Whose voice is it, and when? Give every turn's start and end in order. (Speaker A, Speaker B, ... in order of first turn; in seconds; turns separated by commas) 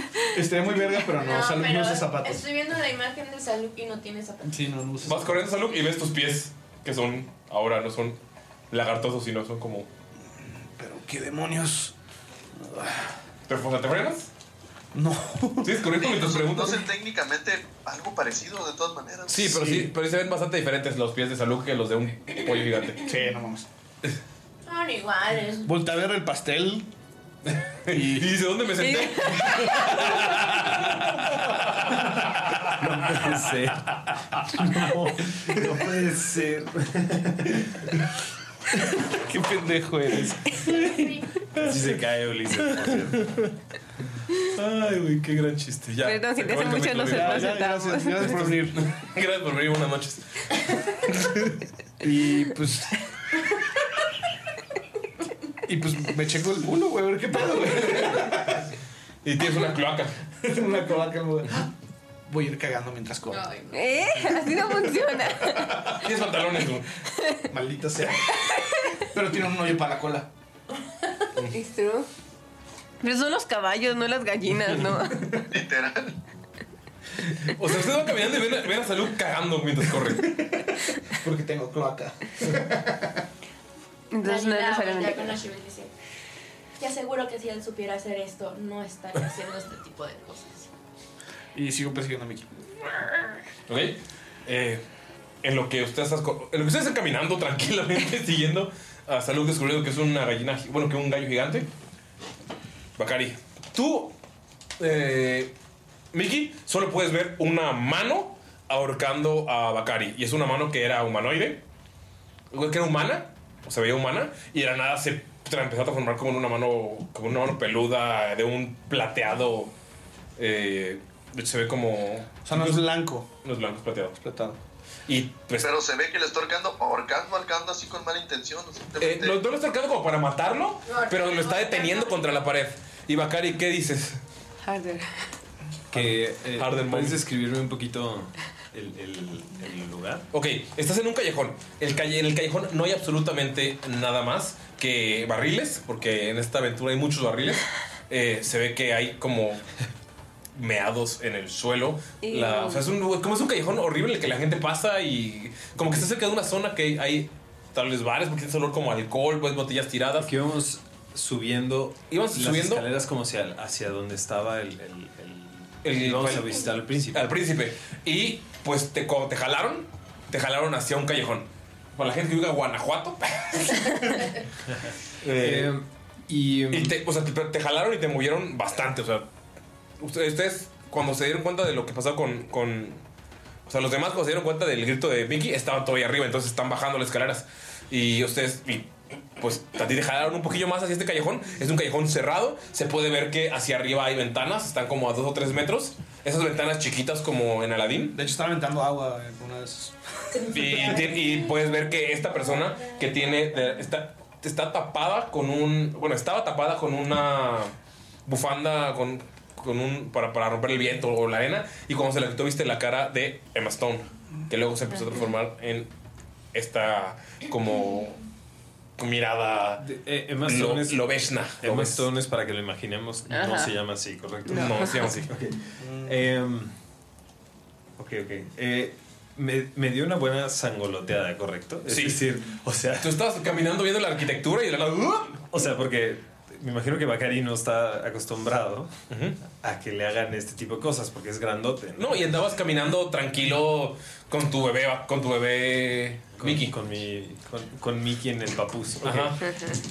Speaker A: 0.3-2.5, Speaker B: 1.2-4.6, Speaker A: 4.5-5.4, Speaker C: 5.0-8.2, Speaker C: 8.7-9.9, Speaker A: 10.4-11.9, Speaker A: 12.6-13.1, Speaker C: 13.5-14.3, Speaker A: 14.9-15.8, Speaker C: 15.6-16.9, Speaker D: 16.0-19.6, Speaker C: 19.3-23.1, Speaker A: 19.4-19.9, Speaker A: 23.0-23.7, Speaker B: 24.7-25.7, Speaker A: 25.6-26.9, Speaker C: 27.5-33.1, Speaker A: 27.9-28.3, Speaker A: 30.2-31.1, Speaker E: 32.8-37.9, Speaker A: 39.0-40.5, Speaker B: 40.6-41.3, Speaker C: 40.7-42.0, Speaker E: 41.6-43.3, Speaker C: 42.5-43.5, Speaker C: 44.5-47.7, Speaker F: 46.1-48.2, Speaker A: 47.0-48.8, Speaker C: 48.2-51.6, Speaker A: 52.0-53.0, Speaker A: 55.7-58.6, Speaker C: 57.8-58.5, Speaker C: 59.2-60.1, Speaker A: 60.4-61.7, Speaker A: 62.3-63.5, Speaker B: 63.3-63.9, Speaker F: 63.8-65.6, Speaker C: 65.8-66.9, Speaker A: 67.5-68.4, Speaker A: 69.1-70.3, Speaker F: 71.6-72.1, Speaker F: 73.0-75.4, Speaker D: 75.5-76.2, Speaker C: 77.4-80.7, Speaker A: 81.1-83.2, Speaker F: 84.1-85.3, Speaker B: 84.2-85.9, Speaker B: 86.8-90.7, Speaker A: 91.5-92.5, Speaker C: 93.7-94.8, Speaker C: 95.4-101.7, Speaker C: 103.0-104.2, Speaker C: 104.8-105.5, Speaker C: 106.1-111.6, Speaker C: 112.5-119.7, Speaker C: 120.4-122.9, Speaker A: 122.5-123.3, Speaker C: 123.4-124.2, Speaker A: 124.2-124.6, Speaker C: 125.1-125.7, Speaker D: 125.6-129.4, Speaker C: 129.0-134.2, Speaker B: 130.9-132.4, Speaker F: 134.6-135.1, Speaker E: 135.9-140.2, Speaker C: 135.9-137.2, Speaker C: 140.3-149.6, Speaker C: 150.6-160.3, Speaker F: 152.2-152.9, Speaker E: 155.8-156.1, Speaker E: 160.2-167.4, Speaker C: 162.1-162.9, Speaker C: 165.8-174.4, Speaker C: 175.2-175.7, Speaker E: 175.3-177.0, Speaker C: 176.7-179.3, Speaker C: 180.0-183.0, Speaker C: 183.7-198.2, Speaker A: 198.1-199.9, Speaker B: 200.4-200.8, Speaker A: 200.5-200.9, Speaker C: 200.5-207.7, Speaker C: 208.3-215.9, Speaker C: 216.5-218.2, Speaker C: 219.0-219.8, Speaker E: 219.8-221.1, Speaker C: 220.4-222.1, Speaker E: 221.6-226.7, Speaker F: 223.3-223.7, Speaker C: 224.5-225.3, Speaker A: 225.8-226.2, Speaker E: 228.0-233.2, Speaker C: 231.9-232.2, Speaker C: 233.0-235.4, Speaker E: 235.5-238.9, Speaker C: 239.1-239.4, Speaker E: 239.5-242.3, Speaker C: 242.0-246.8, Speaker E: 246.4-249.4, Speaker C: 249.0-249.5